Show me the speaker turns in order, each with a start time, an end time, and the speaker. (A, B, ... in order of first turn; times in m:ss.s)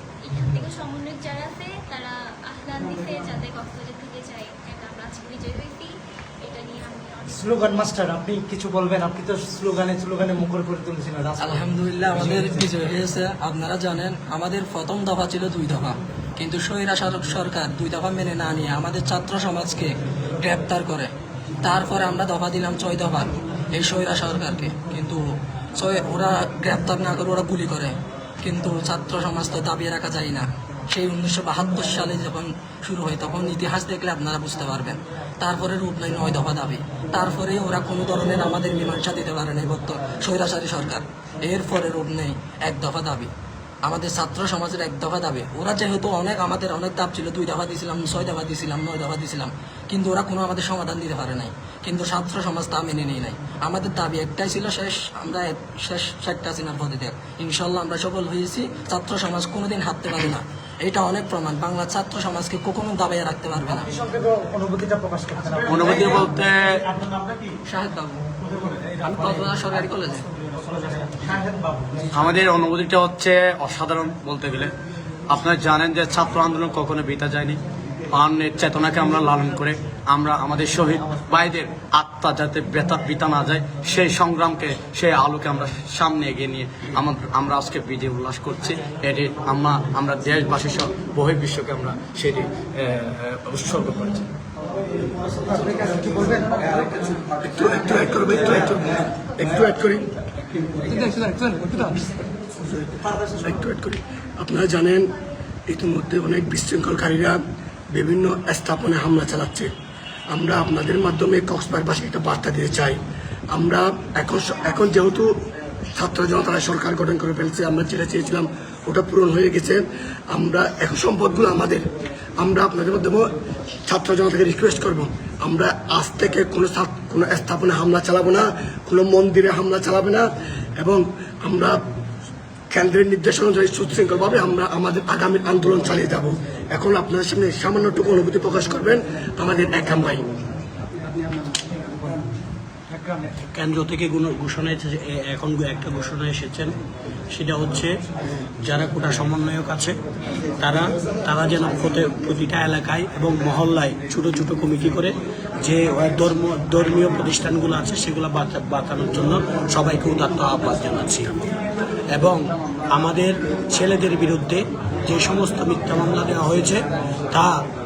0:00.2-0:08.0 A
0:07.3-0:12.7 B
0:11.4-0:21.1 C
0:21.6-0:43.3 C
0:43.8-1:03.9 C
1:03.7-1:06.3 B
1:05.7-1:06.8 D
1:06.9-1:07.5 B
1:07.7-1:08.2 C
1:08.4-1:09.7 B
1:09.0-1:10.2 C
1:10.6-1:12.4 B
1:12.1-1:14.7 D
1:15.3-1:17.6 D
1:18.1-1:34.3 D
1:35.5-1:36.6 B
1:37.4-1:40.0 E
1:41.2-1:41.9 B
1:42.6-1:45.1 E
1:45.7-1:49.7 E
1:50.3-1:55.3 E
1:55.9-2:03.3 E
2:03.9-2:11.8 E
2:12.7-2:20.3 E
2:22.9-2:23.2 B
2:23.5-2:26.7 F
2:27.3-2:27.9 F
2:28.6-2:29.9 F
2:30.6-2:41.3 F
2:42.1-2:42.4 F
2:42.9-2:47.6 F